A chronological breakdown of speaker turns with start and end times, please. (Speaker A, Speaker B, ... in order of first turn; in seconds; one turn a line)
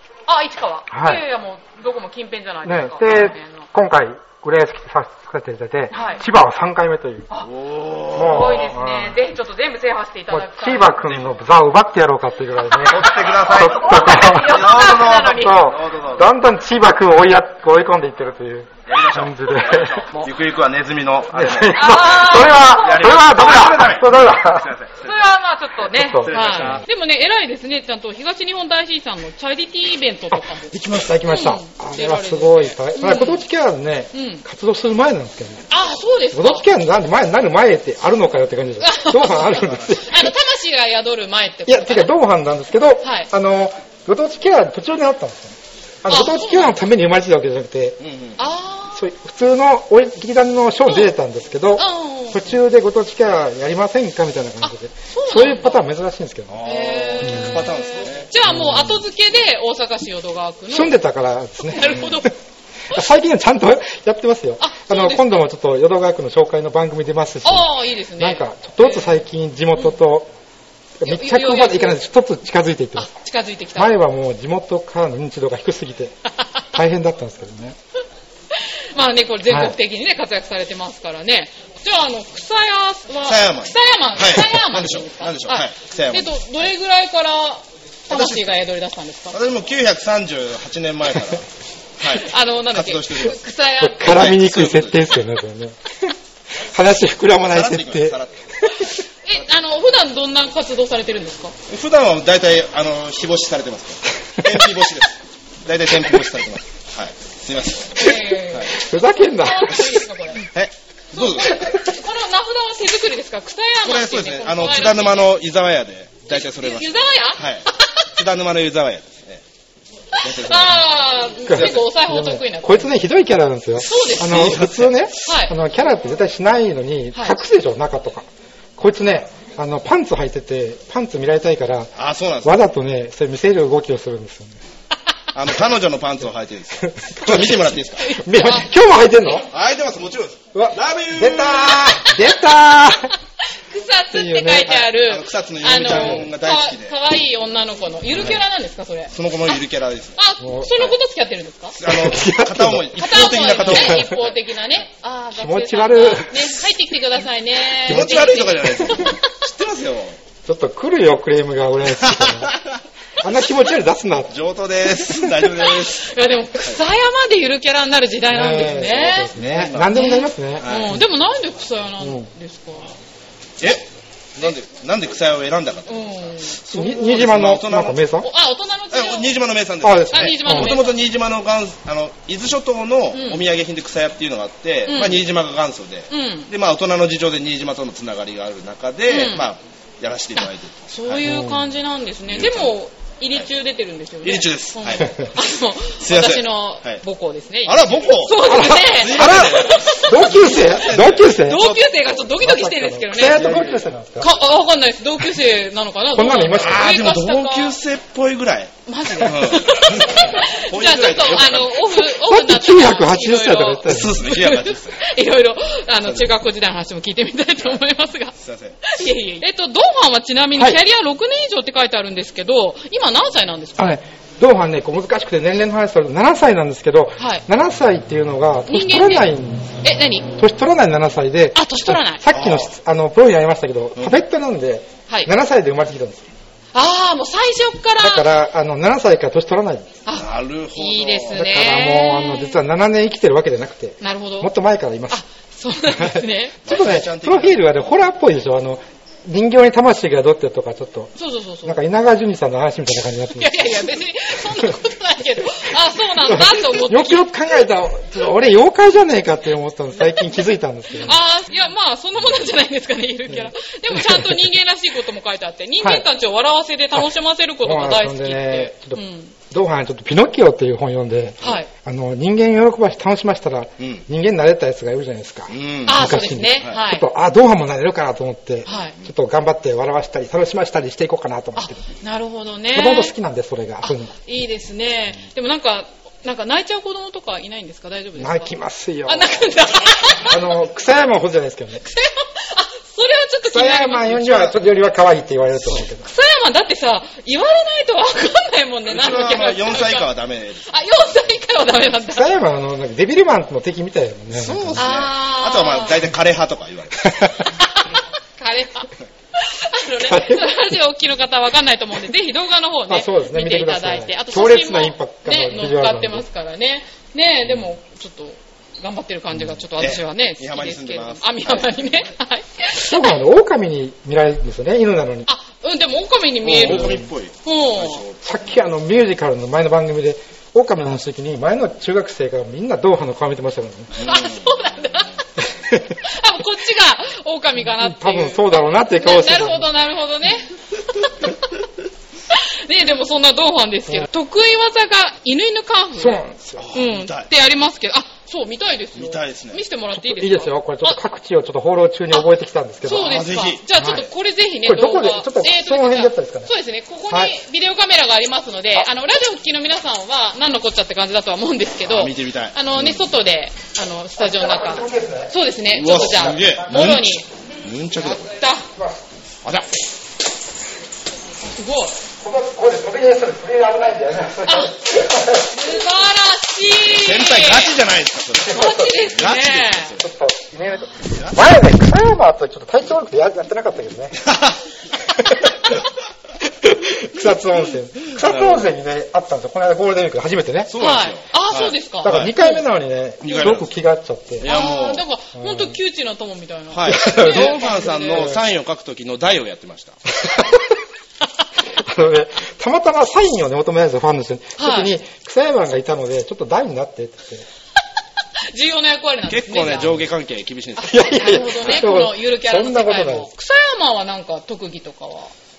Speaker A: 0.3-3.7
Speaker B: 0.9-1.2
Speaker B: 2.6-7.3
Speaker A: 5.9-6.2
Speaker C: 7.5-8.6
Speaker B: 8.1-9.2
Speaker A: 8.2-11.0
Speaker B: 10.3-14.7
Speaker C: 11.0-11.3
Speaker A: 12.7-15.6
Speaker C: 12.8-16.3
Speaker B: 15.3-20.1
Speaker C: 18.9-25.2
Speaker B: 21.3-24.7
Speaker A: 21.7-23.3
Speaker A: 25.0-33.4
Speaker B: 25.8-26.8
Speaker C: 26.2-26.8
Speaker B: 30.3-35.7
Speaker A: 34.1-34.4
Speaker A: 35.7-36.7
Speaker B: 36.3-40.3
Speaker A: 38.8-42.1
Speaker B: 41.7-48.0
Speaker A: 43.0-43.3
Speaker A: 46.1-46.8
Speaker C: 48.0-48.4
Speaker A: 48.4-49.0
Speaker B: 49.0-56.7
Speaker A: 50.9-51.1
Speaker A: 51.8-52.5
Speaker A: 54.6-55.8
Speaker C: 56.5-58.3
Speaker A: 56.6-61.0
Speaker B: 57.2-57.7
Speaker B: 58.5-59.0
Speaker B: 60.7-62.3
Speaker A: 61.6-62.3
Speaker B: 62.9-70.3
Speaker A: 64.6-65.4
Speaker A: 67.4-69.2
Speaker B: 71.0-73.1
Speaker A: 71.0-72.0
Speaker A: 73.0-74.0
Speaker B: 73.8-76.2
Speaker B: 76.7-77.8
Speaker A: 78.5-89.4
Speaker B: 79.5-79.8
Speaker C: 83.3-86.7
Speaker C: 88.1-88.5
Speaker C: 89.3-91.5
Speaker C: 92.0-93.4
Speaker A: 92.1-94.2
Speaker B: 93.8-96.1
Speaker C: 94.0-95.2
Speaker B: 96.7-98.9
Speaker C: 97.5-98.5
Speaker A: 99.2-101.5
Speaker C: 101.7-108.7
Speaker A: 108.0-110.5
Speaker B: 108.7-110.0
Speaker C: 110.4-111.7
Speaker A: 111.1-115.2
Speaker C: 113.8-119.4
Speaker A: 116.3-118.1
Speaker A: 120.2-122.9
Speaker C: 120.2-121.0
Speaker B: 121.5-134.6
Speaker C: 121.5-121.9
Speaker A: 123.8-124.4
Speaker C: 124.0-124.9
Speaker A: 125.2-125.5
Speaker C: 132.0-132.6
Speaker C: 135.3-138.1
Speaker B: 136.8-139.5
Speaker A: 138.0-138.7
Speaker C: 139.5-142.1
Speaker B: 140.5-143.1
Speaker A: 143.6-149.6
Speaker B: 144.1-144.8
Speaker C: 144.7-147.0
Speaker B: 145.9-146.3
Speaker C: 149.1-150.2
Speaker A: 150.2-151.8
Speaker B: 150.4-150.8
Speaker C: 151.8-154.4
Speaker B: 151.8-153.0
Speaker A: 153.0-159.2
Speaker B: 153.6-154.1
Speaker B: 155.3-156.6
Speaker C: 157.9-160.2
Speaker B: 157.9-158.2
Speaker B: 160.4-162.5
Speaker C: 162.0-162.8
Speaker B: 163.2-164.4
Speaker C: 164.3-166.8
Speaker A: 165.6-169.3
Speaker B: 168.3-171.1
Speaker C: 169.1-170.0
Speaker A: 169.9-172.9
Speaker C: 170.6-171.0
Speaker B: 172.0-172.3
Speaker C: 173.6-173.8
Speaker C: 174.4-178.0
Speaker A: 175.9-176.6
Speaker B: 176.7-178.3
Speaker A: 178.2-179.3
Speaker C: 178.9-191.3
Speaker B: 179.8-180.8
Speaker A: 180.1-181.0
Speaker A: 183.1-183.4
Speaker A: 184.9-185.2
Speaker A: 186.1-186.5
Speaker A: 189.1-189.5
Speaker A: 190.4-200.5
Speaker B: 191.2-191.7
Speaker C: 192.3-192.8
Speaker C: 194.2-195.3
Speaker C: 196.0-197.0
Speaker C: 197.7-201.9
Speaker B: 198.4-201.7
Speaker A: 201.4-203.5
Speaker B: 202.4-204.3
Speaker C: 203.2-203.9
Speaker A: 204.2-207.8
Speaker B: 206.1-206.9
Speaker C: 206.5-211.8
Speaker A: 208.9-224.0
Speaker B: 211.9-214.3
Speaker C: 213.9-215.0
Speaker C: 218.4-218.8
Speaker B: 223.8-236.3
Speaker A: 227.2-227.4
Speaker A: 228.7-229.3
Speaker A: 229.8-230.3
Speaker A: 231.6-232.2
Speaker C: 232.3-232.7
Speaker C: 234.0-234.2
Speaker A: 236.7-238.3
Speaker B: 238.0-239.9
Speaker A: 240.1-242.6
Speaker C: 240.2-241.5
Speaker B: 241.3-245.2
Speaker A: 244.0-244.5
Speaker A: 245.1-246.6
Speaker B: 246.0-253.8
Speaker C: 246.7-248.0
Speaker A: 251.2-251.8
Speaker A: 253.3-257.3
Speaker B: 256.2-261.2
Speaker A: 260.9-269.3
Speaker B: 263.3-264.4
Speaker B: 267.6-281.8
Speaker A: 271.4-271.7
Speaker C: 275.5-276.8
Speaker A: 275.9-277.1
Speaker A: 278.7-279.0
Speaker A: 281.6-283.1
Speaker B: 282.7-284.1
Speaker A: 283.8-288.5
Speaker B: 288.2-289.5
Speaker A: 289.1-290.4
Speaker B: 290.2-291.8
Speaker A: 291.8-294.6
Speaker B: 293.5-296.1
Speaker A: 296.0-300.1
Speaker C: 298.9-300.8
Speaker A: 300.7-302.4
Speaker B: 302.1-304.8
Speaker C: 304.3-307.5
Speaker A: 304.8-306.1
Speaker A: 307.6-323.2
Speaker B: 310.0-310.5
Speaker B: 312.9-316.2
Speaker C: 319.8-322.1
Speaker B: 322.8-325.3
Speaker A: 325.3-328.0
Speaker C: 326.4-328.4
Speaker B: 326.6-327.1
Speaker B: 328.2-333.9
Speaker C: 334.0-334.5
Speaker A: 334.0-335.2
Speaker B: 335.7-335.9
Speaker A: 336.0-341.4
Speaker B: 337.7-339.7
Speaker A: 342.3-346.2
Speaker B: 346.0-346.7
Speaker C: 346.6-347.3
Speaker A: 346.7-351.0
Speaker C: 349.0-349.6
Speaker B: 349.9-353.2
Speaker A: 352.8-367.3
Speaker C: 352.9-353.6
Speaker B: 353.8-354.1
Speaker B: 354.6-356.5
Speaker C: 361.9-363.1
Speaker B: 364.2-365.3
Speaker C: 365.7-368.3
Speaker B: 365.9-367.0
Speaker A: 368.0-368.7
Speaker B: 368.8-369.0
Speaker A: 371.5-372.0
Speaker B: 372.2-375.6
Speaker A: 374.4-374.7
Speaker A: 375.5-377.8
Speaker C: 376.9-380.1
Speaker A: 378.5-379.9
Speaker B: 378.5-378.9
Speaker B: 380.0-384.2
Speaker C: 384.2-384.6
Speaker B: 385.1-385.8
Speaker B: 386.4-390.7
Speaker C: 388.1-388.7
Speaker C: 390.7-392.3
Speaker A: 390.8-392.6
Speaker B: 392.0-394.5
Speaker C: 393.2-393.7
Speaker A: 393.3-393.6
Speaker C: 394.4-395.1
Speaker A: 394.4-398.3
Speaker B: 395.4-395.8
Speaker C: 396.7-400.0
Speaker B: 396.9-397.6
Speaker B: 400.2-400.6
Speaker B: 401.7-407.5
Speaker A: 404.6-404.9
Speaker A: 408.5-410.0
Speaker C: 409.3-411.8
Speaker A: 410.8-415.3
Speaker B: 410.8-413.3